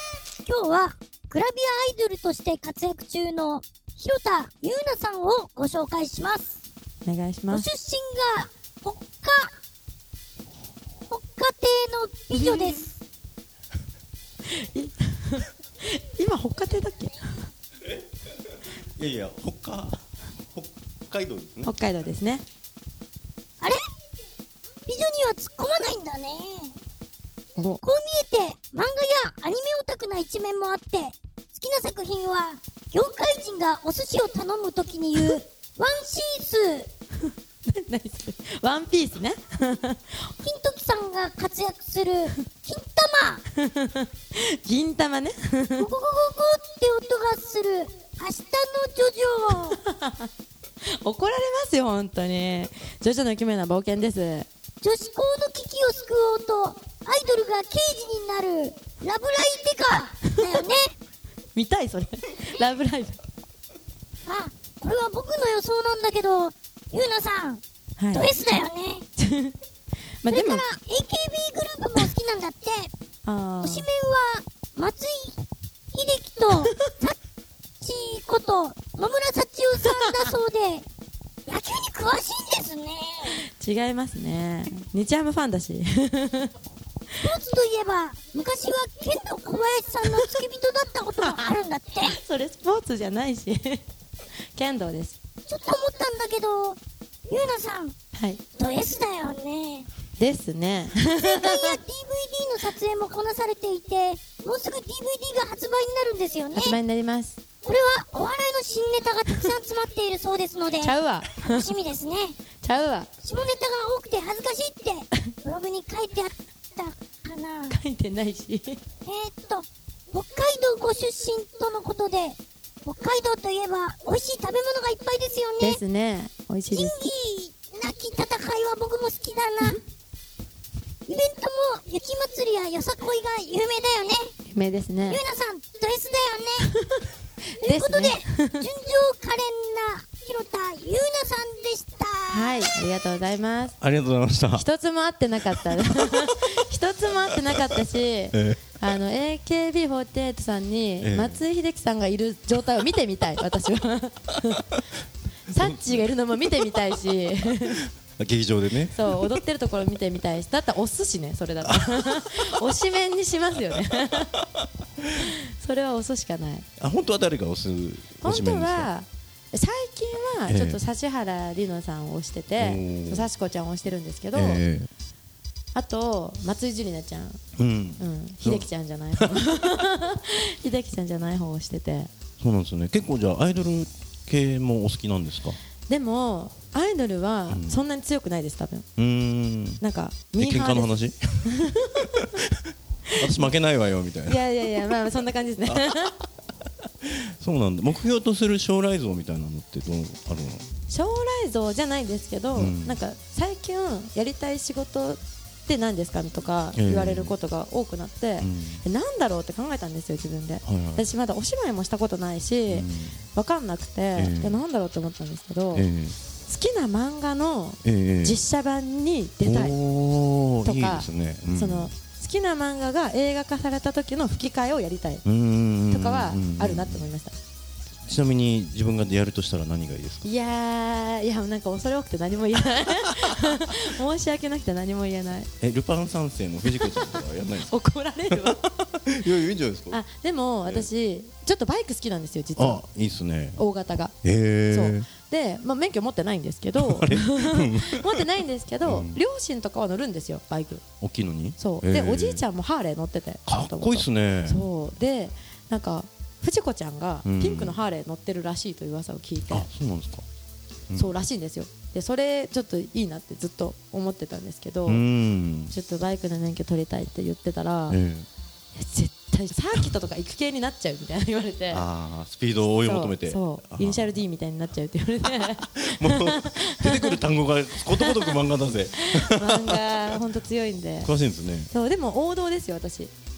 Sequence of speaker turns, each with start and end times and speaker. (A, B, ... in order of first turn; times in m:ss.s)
0:00.4-0:06.5 A
0:07.0-0:07.7 B
0:07.5-0:09.5 A
0:11.1-0:12.9 A
0:12.3-0:12.8 B
0:14.4-0:17.5 B
0:18.8-0:20.0 C
0:20.5-0:21.7 C
0:21.6-0:22.4 B
0:24.9-0:26.8 A
0:27.6-0:27.8 B
0:27.8-0:36.9 A
0:37.7-0:40.3 B
0:40.4-0:43.4 A
0:43.6-0:45.9 B
0:45.8-0:49.8 A
0:49.8-0:50.3 B
0:50.8-0:54.5 B
0:54.8-1:01.0 A
1:01.6-1:03.2 B
1:04.3-1:07.6 A
1:08.0-1:08.3 B
1:08.1-1:09.1 A
1:09.2-1:09.6 B
1:10.2-1:10.6 B
1:10.3-1:12.9 A
1:13.2-1:13.9 B
1:13.6-1:15.4 A
1:15.9-1:17.2 A
1:17.8-1:20.9 A
1:20.0-1:20.3 B
1:21.5-1:23.4 A
1:23.4-1:26.5 B
1:27.2-1:32.2 A
1:32.0-1:33.8 B
1:34.5-1:35.2 B
1:35.5-1:38.0 A
1:38.2-1:38.4 B
1:38.6-1:39.9 A
1:40.2-1:41.8 B
1:41.2-1:46.8 A
1:46.6-1:47.4 B
1:47.6-1:52.4 A
1:50.8-1:51.7 B
1:52.6-1:53.1 B
1:53.2-1:57.8 A
1:57.7-1:58.8 B
1:59.1-2:05.8 A
2:05.6-2:06.9 B
2:06.7-2:09.8 A
2:11.1-2:14.3 A
2:14.5-2:15.2 B
2:15.1-2:16.7 A
2:17.6-2:18.6 B
2:17.6-2:22.7 A
2:22.3-2:23.8 B
2:23.8-2:24.7 C
2:24.6-2:34.8 B
2:25.5-2:26.3 C
2:27.5-2:27.8 C
2:28.3-2:28.7 C
2:31.0-2:31.4 C
2:35.5-2:37.8 B
2:35.6-2:36.8 C
2:37.7-2:39.4 C
2:38.9-2:44.3 B
2:41.6-2:42.5 C
2:44.1-2:44.6 C
2:45.2-2:46.7 B
2:46.8-2:48.9 C
2:48.2-2:54.6 B
2:50.5-2:50.8 C
2:52.6-2:53.3 C
2:54.3-2:54.9 C
2:55.7-2:57.4 B
2:57.6-2:59.4 C
2:58.0-3:02.1 B
3:02.4-3:05.6 C
3:05.9-3:08.9 B
3:07.5-3:07.8 C
3:09.0-3:09.8 C
3:09.8-3:10.9 B
3:10.4-3:12.6 C
3:11.5-3:12.3 B
3:13.1-3:13.5 B
3:13.2-3:16.1 C
3:14.3-3:16.2 B
3:17.0-3:20.6 C
3:20.9-3:35.9 B
3:22.6-3:23.0 C
3:26.8-3:27.3 C
3:28.4-3:28.8 C
3:30.6-3:31.0 C
3:32.7-3:33.2 C
3:34.2-3:34.6 C
3:35.7-3:36.2 C
3:36.5-3:39.8 B
3:37.8-3:38.4 C
3:39.4-3:41.9 C
3:40.6-3:45.2 B
3:45.2-3:47.1 C
3:45.9-3:47.4 B
3:48.1-3:50.3 C
3:50.2-3:55.5 B
3:55.6-3:57.7 C
3:56.6-3:58.6 B
3:58.3-4:00.0 C
3:59.9-4:02.8 B
4:02.6-4:03.6 C
4:03.6-4:04.2 B
4:04.2-4:05.1 C
4:04.7-4:10.8 B
4:06.8-4:09.2 C
4:11.0-4:12.4 C
4:11.6-4:19.7 B
4:13.5-4:14.6 C
4:17.2-4:17.8 C
4:19.5-4:20.2 C
4:20.9-4:21.2 C
4:21.0-4:25.0 B
4:24.9-4:25.8 C
4:25.7-4:28.0 B
4:27.9-4:28.3 C
4:28.8-4:31.8 B
4:31.7-4:34.2 C
4:32.6-4:37.2 B
4:35.4-4:40.2 C
4:37.8-4:38.4 B
4:39.0-4:41.1 B
4:41.0-4:41.7 C
4:41.7-4:43.1 B